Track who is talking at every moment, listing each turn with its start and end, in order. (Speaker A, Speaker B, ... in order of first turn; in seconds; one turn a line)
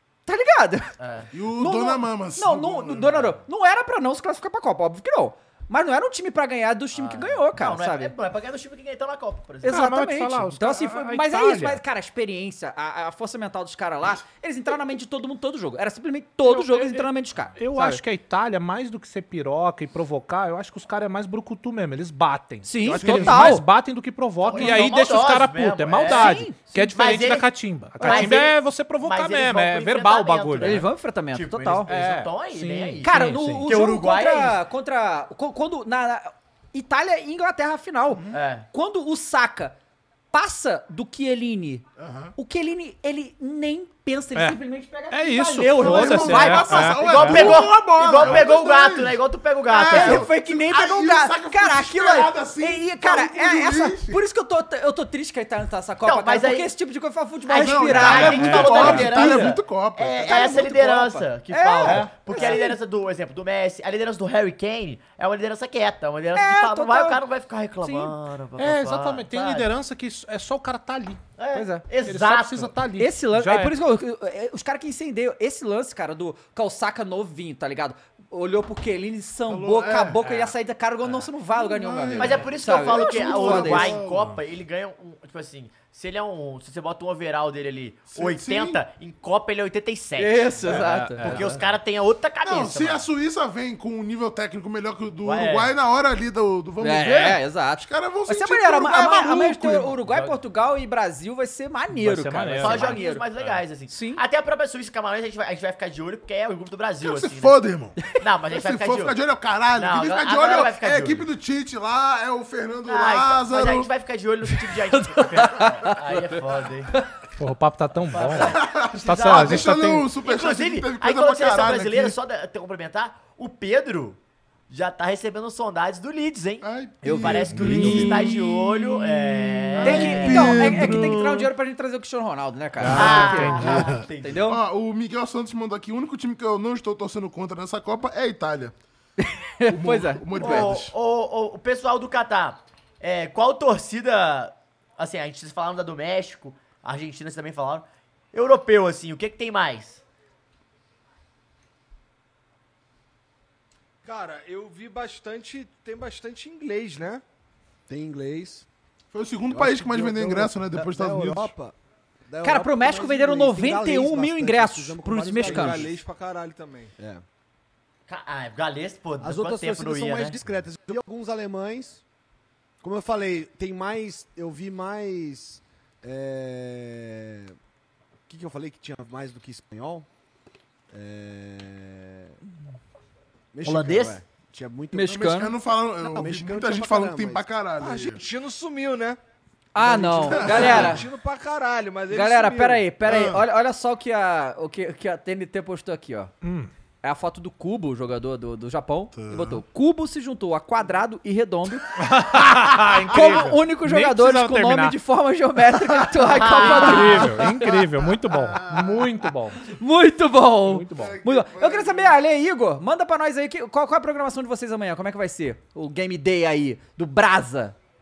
Speaker A: 0.2-0.9
Speaker B: 1.0-1.3
Speaker C: 1.3-3.2
Speaker A: 1.6-8.1
Speaker B: 6.9-9.8
Speaker D: 9.6-11.8
Speaker A: 9.6-18.0
Speaker D: 16.4-17.1
Speaker D: 17.6-30.8
Speaker A: 22.6-23.6
Speaker C: 22.9-23.6
Speaker B: 24.4-34.6
Speaker A: 24.6-24.8
Speaker A: 26.1-26.6
Speaker A: 28.0-28.4
Speaker A: 30.6-31.9
Speaker D: 31.9-33.7
Speaker A: 33.0-39.7
Speaker B: 38.3-38.7
Speaker A: 40.3-41.8
Speaker C: 42.0-42.3
Speaker A: 42.4-47.0
Speaker D: 45.1-47.6
Speaker C: 45.7-49.2
Speaker B: 46.9-50.3
Speaker C: 49.7-54.2
Speaker A: 49.7-59.5
Speaker B: 56.0-56.7
Speaker B: 57.5-69.7
Speaker C: 57.5-61.0
Speaker D: 58.3-59.0
Speaker A: 60.2-62.8
Speaker C: 62.0-62.6
Speaker A: 66.3-67.2
Speaker A: 67.8-68.1
Speaker D: 68.6-71.2
Speaker B: 71.4-72.7
Speaker A: 71.5-71.8
Speaker D: 72.0-73.7
Speaker A: 73.0-84.0
Speaker C: 79.5-80.3
Speaker C: 81.5-84.4
Speaker B: 82.2-93.1
Speaker C: 88.1-88.8
Speaker A: 90.2-91.4
Speaker D: 90.8-91.6
Speaker C: 92.4-99.9
Speaker B: 95.2-95.7
Speaker A: 96.8-103.2
Speaker B: 99.9-100.4
Speaker D: 101.9-103.5
Speaker B: 102.6-109.2
Speaker A: 103.9-104.2
Speaker C: 107.0-113.9
Speaker B: 109.8-111.3
Speaker B: 112.8-117.0
Speaker A: 115.2-116.2
Speaker D: 117.4-120.1
Speaker B: 118.1-124.2
Speaker C: 118.4-122.2
Speaker B: 124.7-130.9
Speaker C: 126.6-131.5
Speaker A: 127.0-128.1
Speaker D: 127.6-128.2
Speaker A: 129.8-134.6
Speaker C: 132.8-138.7
Speaker D: 132.8-133.8
Speaker B: 132.9-134.5
Speaker A: 139.2-140.7
Speaker C: 139.7-140.9
Speaker B: 140.3-150.0
Speaker E: 154.0-157.2
Speaker F: 157.9-158.7
Speaker C: 159.1-161.5
Speaker F: 159.5-161.7
Speaker F: 162.3-166.0
Speaker A: 162.4-165.9
Speaker E: 165.4-166.9
Speaker F: 167.0-167.2
Speaker B: 168.1-170.4
Speaker F: 169.2-172.0
Speaker F: 172.8-177.6
Speaker F: 178.3-180.1
Speaker F: 180.9-182.3
Speaker F: 183.5-185.1
Speaker B: 183.6-184.2
Speaker A: 184.9-185.6
Speaker C: 185.1-188.2
Speaker F: 186.0-187.4
Speaker E: 187.8-189.2
Speaker A: 189.7-191.0
Speaker E: 189.8-193.1
Speaker C: 190.3-191.0
Speaker A: 192.1-196.3
Speaker C: 193.0-193.4
Speaker D: 196.4-196.7
Speaker A: 197.0-201.8
Speaker C: 199.1-199.6
Speaker D: 202.0-204.9
Speaker A: 202.7-207.5
Speaker B: 206.2-207.4
Speaker D: 206.6-209.6
Speaker C: 207.6-209.1
Speaker A: 209.7-217.8
Speaker D: 210.7-211.2
Speaker C: 210.9-212.1